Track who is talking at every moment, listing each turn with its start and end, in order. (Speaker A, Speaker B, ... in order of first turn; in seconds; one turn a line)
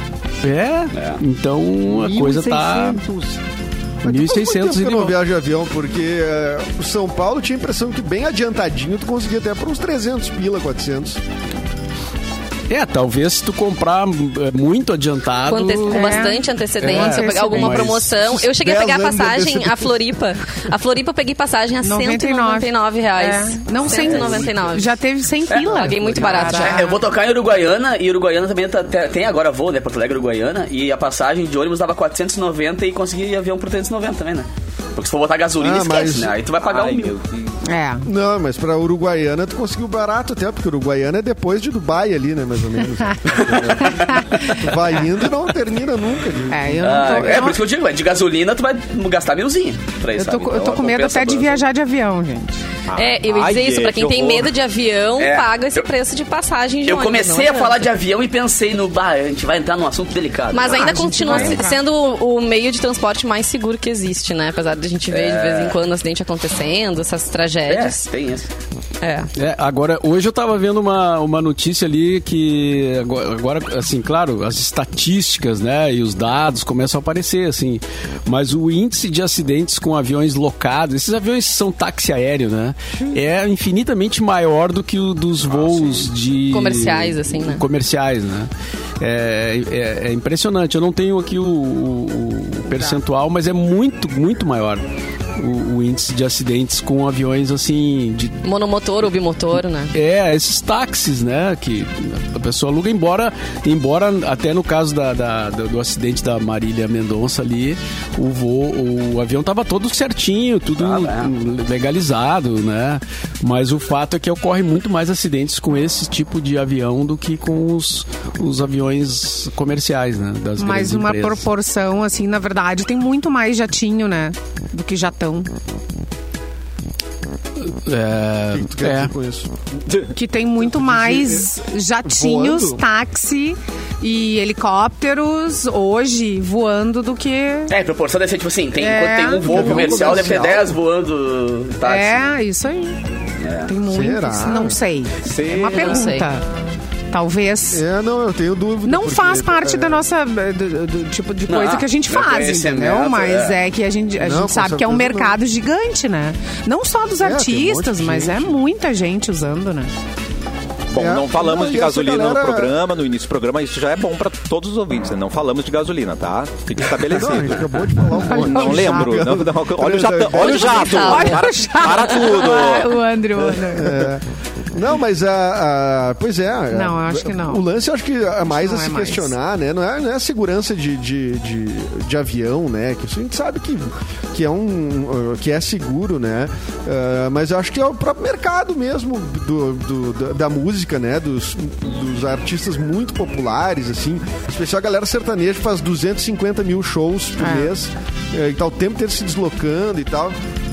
Speaker A: 0.4-3.0
Speaker B: 0.9-1.2
Speaker C: 1.9-3.4
Speaker A: 4.0-5.2
Speaker D: 4.0-11.2
Speaker A: 12.7-18.1
Speaker E: 15.5-24.9
Speaker F: 15.9-17.9
Speaker D: 18.0-20.0
Speaker F: 21.8-27.0
Speaker B: 23.9-24.5
Speaker B: 25.5-37.2
Speaker E: 25.6-26.9
Speaker D: 35.6-36.4
Speaker C: 36.6-37.6
Speaker F: 37.6-38.1
Speaker D: 38.0-47.5
Speaker B: 43.3-44.3
Speaker F: 43.8-44.6
Speaker F: 46.5-47.6
Speaker B: 46.8-51.6
Speaker F: 50.2-52.6
Speaker C: 52.9-54.5
Speaker E: 53.0-57.9
Speaker B: 55.2-55.9
Speaker B: 56.9-61.6
Speaker E: 60.5-68.1
Speaker F: 60.7-61.8
Speaker B: 65.1-65.8
Speaker B: 67.7-68.5
Speaker E: 69.0-69.3
Speaker A: 69.4-94.8
Speaker C: 85.6-85.9
Speaker E: 86.5-87.6
Speaker A: 95.4-98.4
Speaker E: 98.4-99.9
Speaker A: 99.9-121.4
Speaker B: 110.8-111.3
Speaker F: 120.6-125.5
Speaker A: 127.6-129.1
Speaker D: 128.5-129.5
Speaker F: 130.1-137.7
Speaker D: 130.6-131.5
Speaker D: 132.0-132.8
Speaker B: 137.7-142.3
Speaker F: 138.8-140.3
Speaker D: 139.4-140.8
Speaker F: 141.8-143.0
Speaker B: 143.4-143.7
Speaker F: 143.7-146.4
Speaker D: 143.9-144.8
Speaker C: 145.2-146.1
Speaker E: 145.7-146.3
Speaker F: 147.1-147.8
Speaker D: 147.7-150.1
Speaker F: 148.9-159.9
Speaker B: 151.5-153.6
Speaker D: 154.2-155.4
Speaker D: 157.2-158.6
Speaker C: 160.9-173.0
Speaker D: 161.0-162.8
Speaker D: 167.0-171.3
Speaker F: 168.1-169.1
Speaker E: 170.4-171.4
Speaker F: 170.9-174.1
Speaker D: 173.7-200.4
Speaker F: 176.7-177.6
Speaker F: 178.5-179.3
Speaker F: 197.4-197.7